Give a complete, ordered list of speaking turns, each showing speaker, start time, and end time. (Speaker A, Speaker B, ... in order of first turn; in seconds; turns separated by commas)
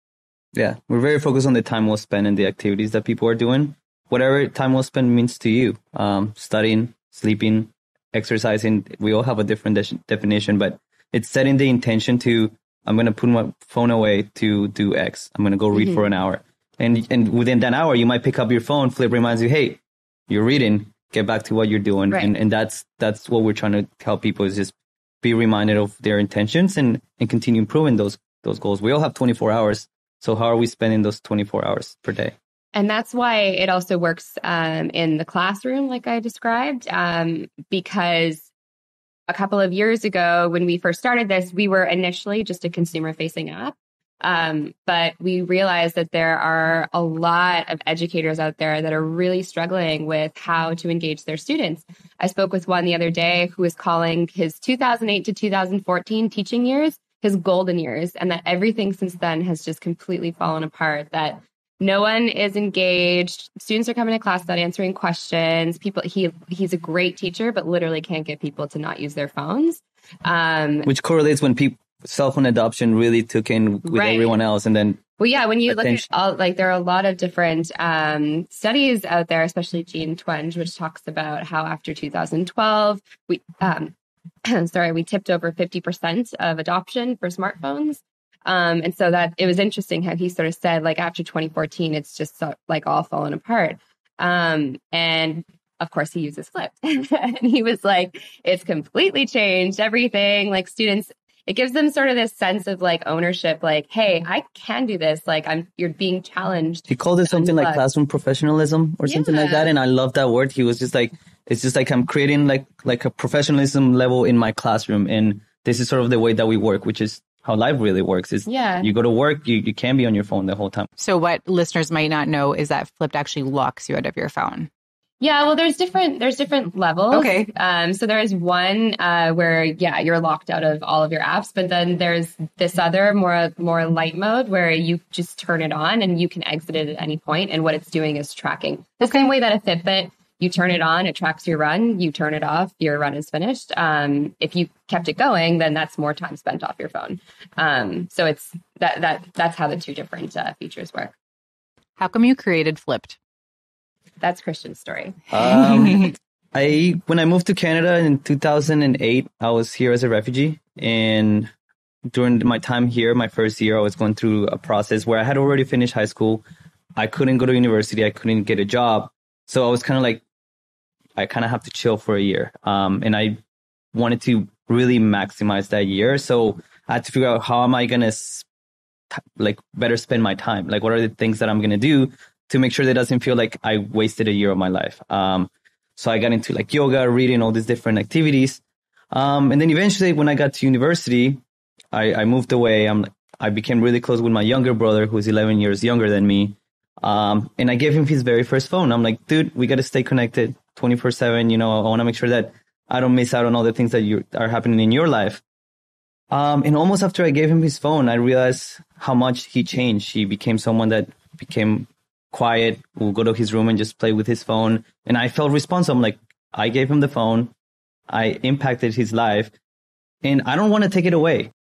Speaker A: 0.5-32.3, Speaker B: 15.7-16.0, Speaker B: 32.7-38.5, Speaker B: 39.3-70.9, Speaker A: 70.8-75.0, Speaker B: 73.8-74.3, Speaker B: 75.2-83.9, Speaker A: 75.7-76.0, Speaker B: 84.4-107.8, Speaker A: 106.9-120.9, Speaker B: 109.0-109.7, Speaker B: 118.5-118.9, Speaker C: 121.0-124.7, Speaker B: 125.2-151.1, Speaker C: 127.1-127.5, Speaker C: 152.0-153.2, Speaker B: 154.2-155.2, Speaker A: 155.3-161.5, Speaker C: 155.5-156.1, Speaker A: 162.1-166.4, Speaker A: 167.0-170.2, Speaker A: 171.2-173.4, Speaker A: 173.9-178.5, Speaker A: 179.1-188.6, Speaker A: 189.1-191.4, Speaker A: 191.9-205.4, Speaker A: 206.3-217.5, Speaker A: 218.1-219.5, Speaker A: 220.2-221.5